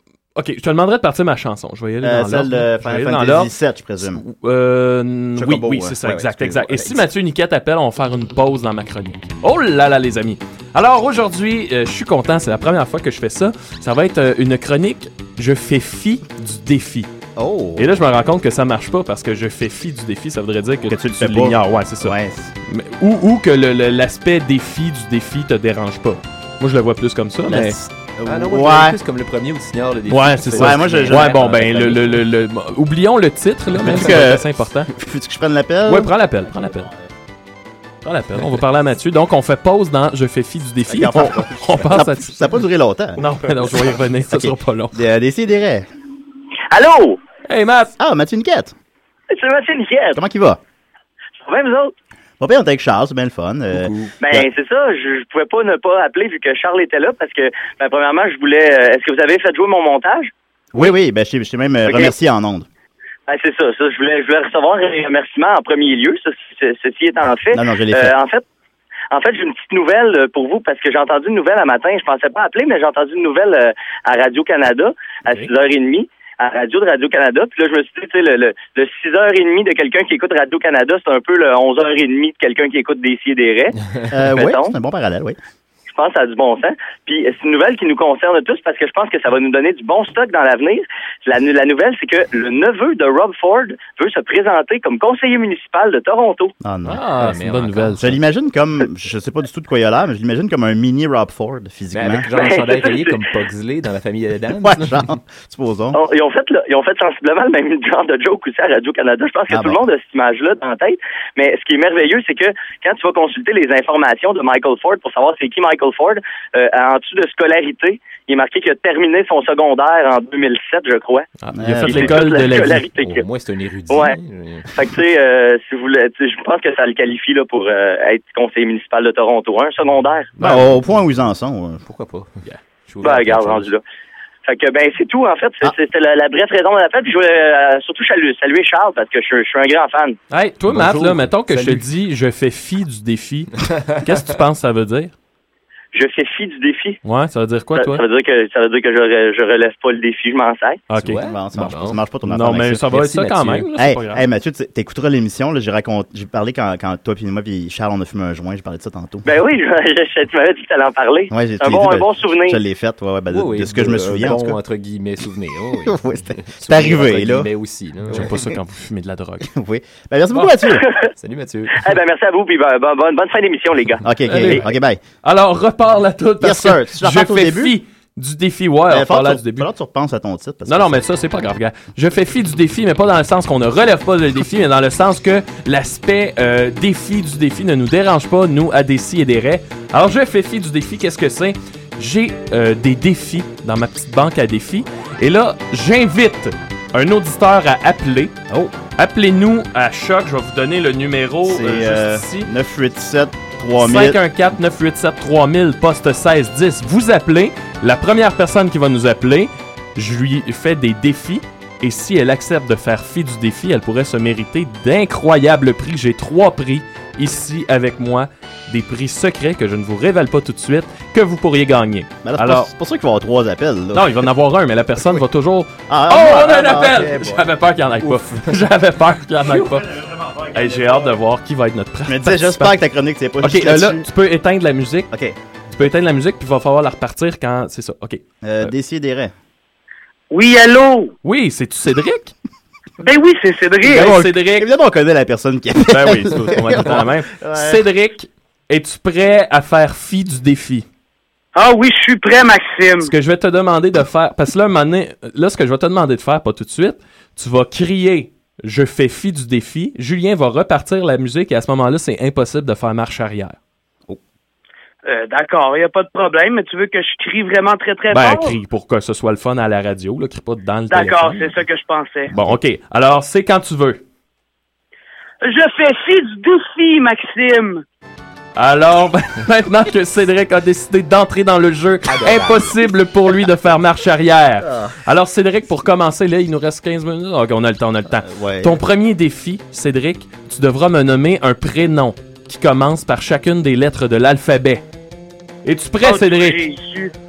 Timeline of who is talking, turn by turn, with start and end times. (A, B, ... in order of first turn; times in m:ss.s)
0:00.4-0:03.5 A
0:02.0-0:04.2 B
0:04.0-0:17.1 A
0:05.4-0:07.1 B
0:17.4-0:18.0 B
0:17.8-0:27.8 A
0:20.9-0:22.5 B
0:27.5-0:29.0 B
0:28.2-0:32.2 C
0:30.1-0:34.9 A
0:30.5-0:31.6 B
0:33.8-0:37.0 B
0:35.8-0:36.9 A
0:38.0-0:42.4 A
0:40.9-0:43.2 B
0:43.2-0:45.0 A
0:44.3-0:45.9 B
0:46.7-0:47.2 D
0:47.5-0:47.9 A
0:48.0-0:48.7 B
0:49.3-0:50.2 D
0:50.1-0:50.6 B
0:51.4-0:51.9 D
0:52.4-0:54.5 B
0:53.7-0:54.1 C
0:54.2-1:00.9 D
1:00.7-1:02.7 B
1:01.8-1:02.1 D
1:03.3-1:08.4 D
1:07.5-1:08.1 B
1:09.1-1:23.8 D
1:24.1-1:25.4 B
1:24.3-1:24.7 D
1:25.9-1:36.5 D
1:36.6-1:37.0 B
1:36.8-1:38.1 A
1:37.2-1:38.2 C
1:38.0-1:42.3 B
1:41.9-1:45.1 C
1:42.3-1:43.2 D
1:44.6-1:46.0 B
1:45.9-2:01.3 D
1:49.5-1:49.8 B
2:01.4-2:02.9 A
2:01.5-2:02.2 B
2:01.8-2:03.2 D
2:02.6-2:04.8 C
2:03.9-2:04.2 D
2:04.7-2:10.3 D
2:10.4-2:11.8 B
2:10.4-2:10.8 C
2:11.8-2:13.7 C
2:13.0-2:13.8 D
2:14.4-2:20.2 D
2:20.3-2:25.1 A
2:20.7-2:21.7 C
2:25.9-2:27.0 D
2:27.0-2:28.0 A
2:27.7-2:30.8 D
2:30.9-2:31.2 A
2:31.0-2:32.0 C
2:31.2-2:32.8 B
2:32.2-2:34.2 A
2:32.9-2:33.7 C
2:33.8-2:39.3 B
2:39.2-2:42.6 D
2:41.3-2:44.6 B
2:43.3-2:48.3 C
2:45.8-2:47.5 B
2:48.1-2:48.5 B
2:48.1-2:49.5 A
2:49.4-2:50.8 B
2:50.6-2:51.1 D
2:51.2-2:51.9 C
2:51.7-2:54.0 D
2:54.0-2:55.0 B
2:54.3-2:54.7 A
2:55.2-2:59.7 A
2:56.4-2:57.8 B
2:58.9-3:01.0 B
3:00.7-3:18.4 A
3:18.5-3:18.7 B
3:19.0-3:22.5 A
3:21.4-3:24.2 B
3:23.8-3:42.7 A
3:42.2-3:44.3 B
3:43.9-3:49.9 A
3:45.9-3:47.5 B
3:49.4-3:51.1 B
3:50.5-3:52.8 A
3:52.1-3:54.1 B
3:53.4-3:55.1 A
3:55.1-3:55.8 B
3:55.8-3:58.7 A
3:58.4-3:59.3 B
4:00.3-4:01.1 E
4:01.2-4:02.3 A
4:03.0-4:04.2 E
4:03.8-4:04.7 A
4:04.1-4:07.8 B
4:05.9-4:10.8 A
4:11.5-4:13.1 E
4:13.0-4:23.6 A
4:25.0-4:28.6 E
4:28.1-4:31.6 A
4:30.9-4:32.3 E
4:32.3-4:34.0 A
4:35.4-4:37.8 E
4:38.6-4:54.8 A
4:42.0-4:42.8 C
4:44.6-4:44.9 B
4:48.2-4:48.8 B
4:55.6-4:56.6 A
4:56.0-4:57.1 E